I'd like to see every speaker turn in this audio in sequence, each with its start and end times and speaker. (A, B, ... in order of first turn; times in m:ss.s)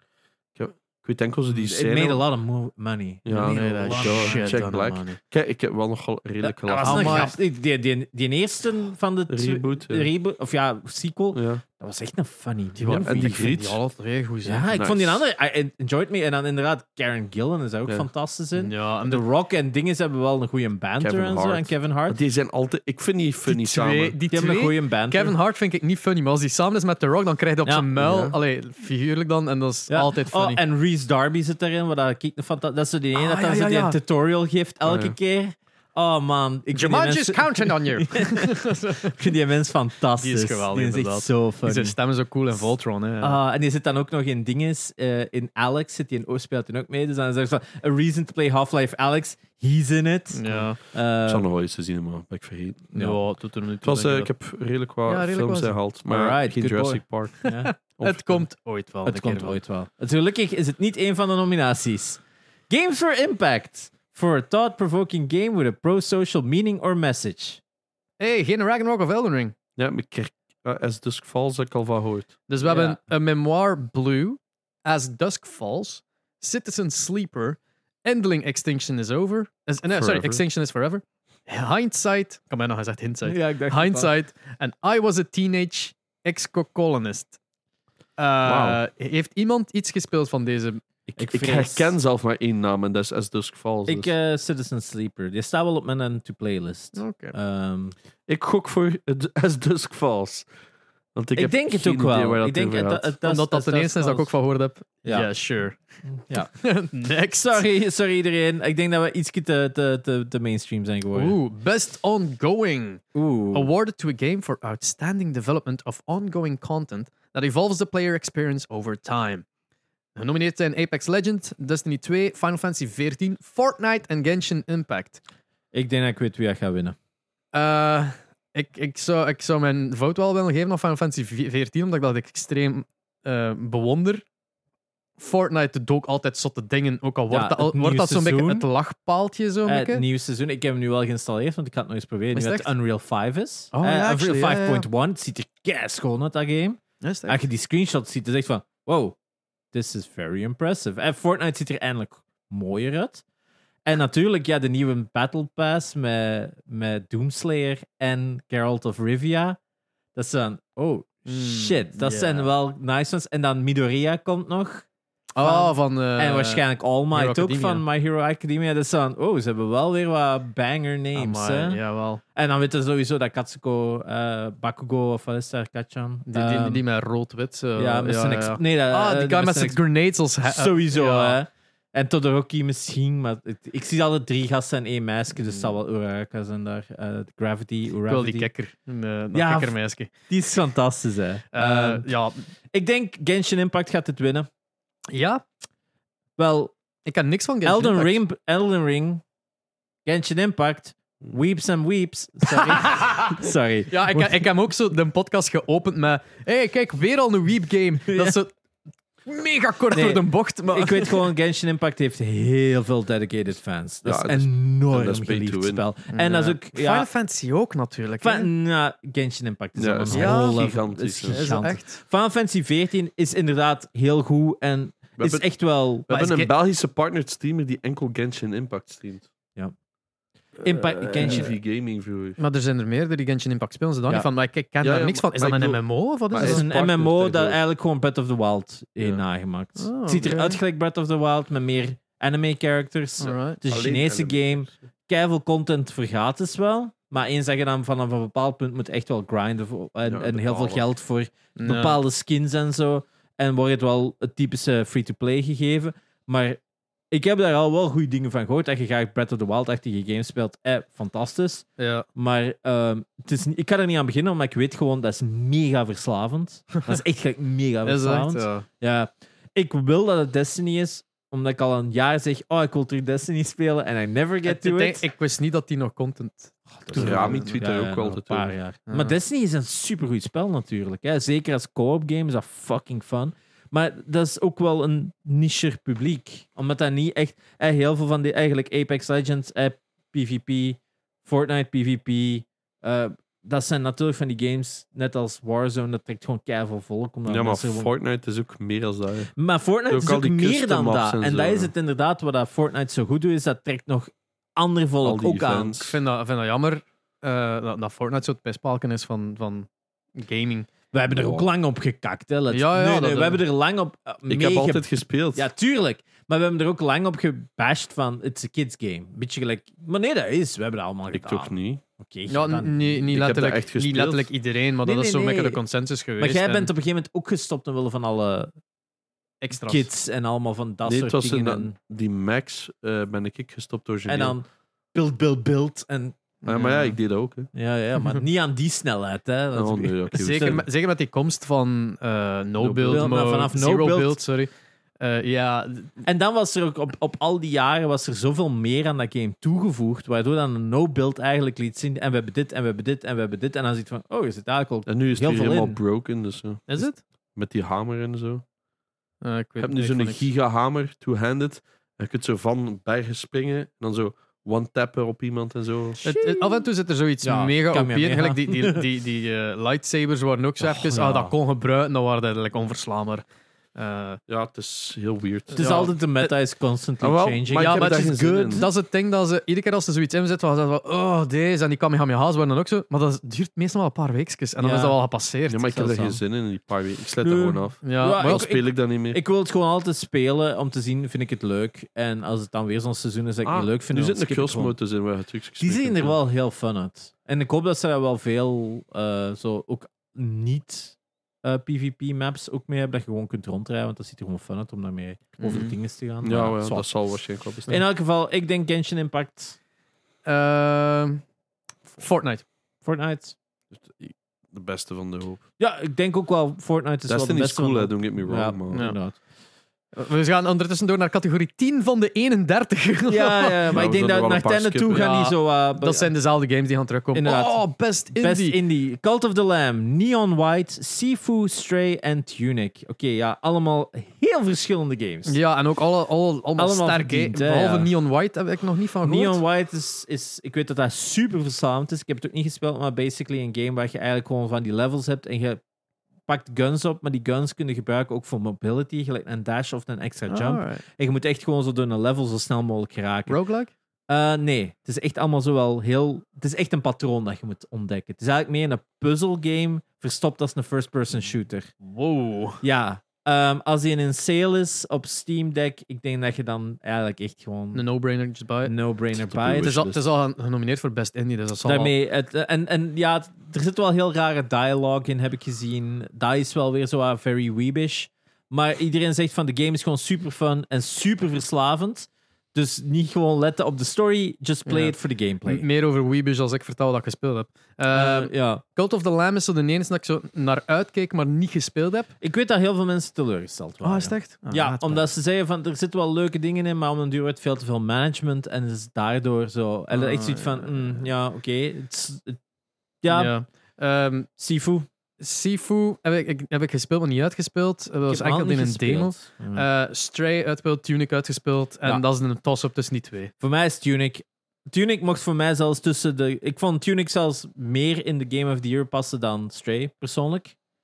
0:00.6-0:02.2 A
0:01.5-0:04.7 B
0:03.2-0:07.3 A
0:03.3-0:05.2 C
0:06.4-0:13.6 B
0:06.8-0:07.3 C
0:09.3-0:10.1 A
0:11.3-0:11.6 A
0:12.8-0:14.8 C
0:12.9-0:13.8 A
0:14.4-0:22.2 B
0:14.7-0:15.2 A
0:18.6-0:19.2 C
0:21.0-0:24.2 A
0:23.4-0:30.6 C
0:24.3-0:25.4 B
0:28.0-0:28.4 A
0:29.9-0:42.0 B
0:33.1-0:34.0 C
0:36.7-0:39.3 C
0:40.2-0:43.4 C
0:43.2-0:51.5 B
0:50.3-0:50.8 C
0:51.3-0:52.9 A
0:52.9-0:54.3 C
0:53.8-0:57.4 A
0:55.0-0:55.8 C
0:56.1-0:58.4 B
0:57.4-0:59.6 C
0:58.0-0:58.3 A
0:59.0-1:07.6 B
1:08.2-1:09.6 C
1:09.8-1:12.3 A
1:12.5-1:27.4 C
1:12.6-1:13.0 B
1:19.9-1:20.4 A
1:23.3-1:24.1 B
1:28.2-1:30.8 C
1:28.4-1:28.8 A
1:31.2-1:32.0 B
1:31.2-1:34.1 A
1:33.9-1:38.0 B
1:37.0-1:37.4 C
1:38.3-1:40.5 A
1:41.1-1:43.1 A
1:41.4-1:44.3 B
1:43.2-1:45.8 C
1:45.0-1:45.3 B
1:46.0-1:46.5 B
1:46.4-1:47.6 C
1:47.4-1:51.4 B
1:51.1-1:59.4 C
1:53.1-1:53.7 B
2:00.2-2:05.2 C
2:05.7-2:07.0 B
2:07.5-2:14.2 C
2:15.2-2:20.0 C
2:17.3-2:18.7 B
2:19.7-2:29.2 B
2:22.4-2:22.7 C
2:23.7-2:24.9 C
2:27.0-2:27.4 C
2:29.7-2:33.2 B
2:33.9-2:39.6 B
2:40.1-2:44.9 B
2:41.3-2:42.5 C
2:45.4-2:47.8 C
2:45.4-2:51.8 B
2:51.1-2:52.2 C
2:52.4-2:56.8 B
2:56.3-3:01.4 C
2:57.8-2:59.8 B
3:00.4-3:08.5 B
3:05.4-3:05.7 C
3:08.1-3:10.1 C
3:09.3-3:12.1 B
3:11.5-3:12.3 C
3:12.7-3:14.5 B
3:15.1-3:15.4 C
3:16.4-3:16.7 B
3:17.0-3:18.2 C
3:17.6-3:19.2 B
3:20.0-3:24.4 B
3:22.5-3:28.5 C
3:28.1-3:28.4 B
3:29.3-3:31.3 C
3:29.9-3:37.1 B
3:34.0-3:35.8 A
3:36.1-3:38.5 C
3:38.2-3:46.1 B
3:39.8-3:41.6 A
3:40.1-3:42.0 C
3:45.2-3:45.4 A
3:46.0-3:49.3 A
3:46.1-3:46.5 C
3:50.6-3:51.5 B
3:50.7-3:52.4 A
3:52.4-3:56.6 C
3:54.8-3:57.6 A
3:56.4-4:16.6 B
3:59.8-4:00.6 C
4:03.2-4:03.6 C
4:03.7-4:04.7 A
4:10.0-4:10.8 A
4:11.6-4:12.0 C
4:17.1-4:35.0 B
4:21.8-4:22.0 C
4:27.8-4:28.7 C
4:34.4-4:37.6 C
4:36.8-4:57.9 B
4:37.0-4:38.5 A
4:38.9-4:39.1 C
4:57.3-4:59.3 A
4:59.4-5:05.9 B
4:59.9-5:01.7 A
5:05.0-5:06.0 A
5:05.9-5:10.7 C
5:10.9-5:23.0 B
5:11.1-5:11.5 A
5:12.5-5:13.4 C
5:14.3-5:15.5 A
5:21.1-5:21.8 A
5:22.3-5:26.7 C
5:23.1-5:24.3 A
5:24.8-5:25.6 B
5:26.2-5:28.5 B
5:29.4-5:29.9 C
5:29.6-5:31.7 B
5:30.9-5:34.4 A
5:34.1-5:36.2 B
5:36.4-5:37.0 C
5:36.4-5:37.5 A
5:37.5-5:40.6 B
5:39.5-5:40.7 A
5:40.1-5:45.9 C
5:42.6-5:43.1 A
5:42.9-5:44.2 B
5:46.0-5:55.8 B
5:54.9-5:58.4 A
5:56.7-5:57.0 C
5:59.2-6:00.2 C
5:59.6-6:06.0 A
6:06.0-6:06.6 B
6:06.0-6:14.2 C
6:07.2-6:08.8 B
6:10.6-6:11.3 B
6:14.3-6:15.9 A
6:15.5-6:16.3 C
6:15.5-6:18.7 B
6:17.0-6:18.7 A
6:17.6-6:25.7 C
6:24.6-6:25.0 B
6:25.5-6:29.2 A
6:25.7-6:26.2 B
6:27.2-6:34.8 B
6:27.8-6:28.4 C
6:33.4-6:36.2 A
6:35.6-6:47.0 B
6:45.4-6:45.7 C
6:46.2-6:47.8 A
6:47.7-6:49.6 B
6:50.2-6:51.2 C
6:51.9-6:52.4 C
6:52.8-6:53.4 B
6:53.8-6:55.4 A
6:55.6-6:59.2 B
6:57.1-6:58.9 A
6:58.7-6:59.0 C
6:59.9-7:03.8 C
7:03.1-7:06.1 B
7:03.7-7:05.1 A
7:04.9-7:08.6 C
7:07.1-7:15.4 B
7:15.3-7:19.4 C
7:16.6-7:17.9 B
7:19.0-7:25.6 B
7:26.3-7:33.4 B
7:30.3-7:30.8 C
7:33.3-7:33.7 C
7:34.1-7:41.7 B
7:41.8-7:42.6 C
7:42.6-7:47.8 B
7:47.7-7:48.7 C
7:48.6-7:50.0 B
7:49.3-7:51.9 C
7:51.6-8:05.6 B
8:04.7-8:12.1 C
8:07.9-8:08.6 B
8:12.2-8:22.4 B
8:13.8-8:15.1 C
8:19.9-8:21.1 C
8:23.0-8:23.4 B
8:23.1-8:24.3 C
8:24.4-8:24.9 B
8:25.2-8:33.3 C
8:28.1-8:29.6 B
8:33.4-8:40.6 B